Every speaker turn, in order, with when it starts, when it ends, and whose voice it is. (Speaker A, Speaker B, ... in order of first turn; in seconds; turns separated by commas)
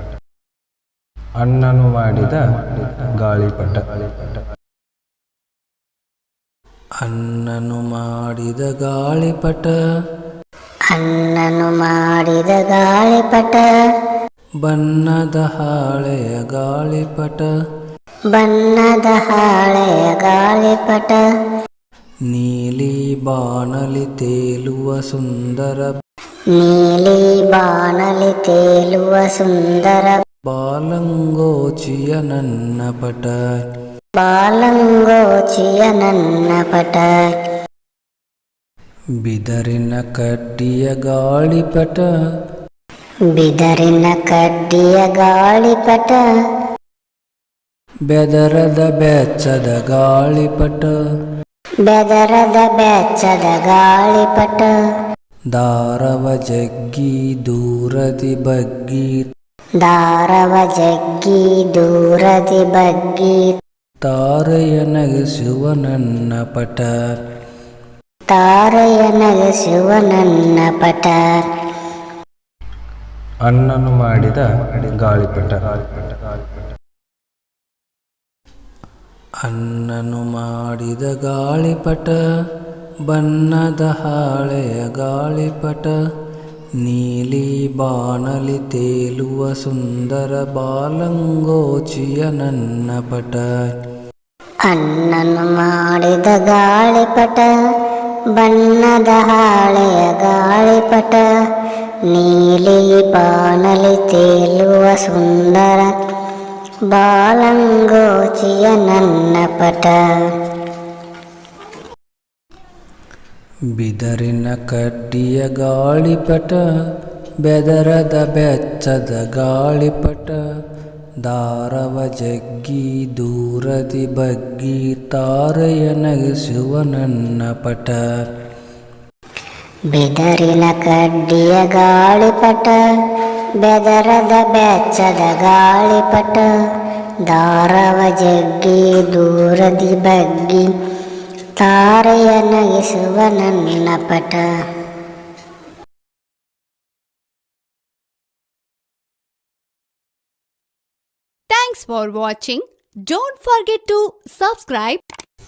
Speaker A: 1.4-4.4, Speaker B: 7.0-9.8, Speaker C: 10.9-13.7, Speaker B: 14.6-17.5, Speaker C: 18.3-21.2, Speaker B: 22.3-26.0, Speaker C: 26.6-30.2, Speaker B: 30.4-33.4, Speaker C: 34.2-37.1, Speaker B: 39.2-42.1, Speaker C: 43.3-46.2, Speaker B: 48.1-50.9, Speaker C: 51.9-54.7, Speaker B: 55.5-59.3, Speaker C: 59.8-63.6, Speaker B: 64.0-66.9, Speaker C: 68.3-71.4, Speaker A: 73.5-76.2, Speaker B: 79.4-82.2, Speaker B: 83.1-86.0, Speaker B: 86.8-93.5, Speaker C: 94.7-97.5, Speaker C: 98.3-101.3, Speaker C: 102.1-105.9, Speaker C: 106.9-110.0, Speaker B: 113.8-116.6, Speaker B: 117.4-120.4, Speaker B: 121.2-128.0, Speaker C: 129.9-132.8, Speaker C: 133.6-136.5, Speaker C: 137.3-140.7, Speaker C: 141.6-144.5, Speaker D: 151.5-155.0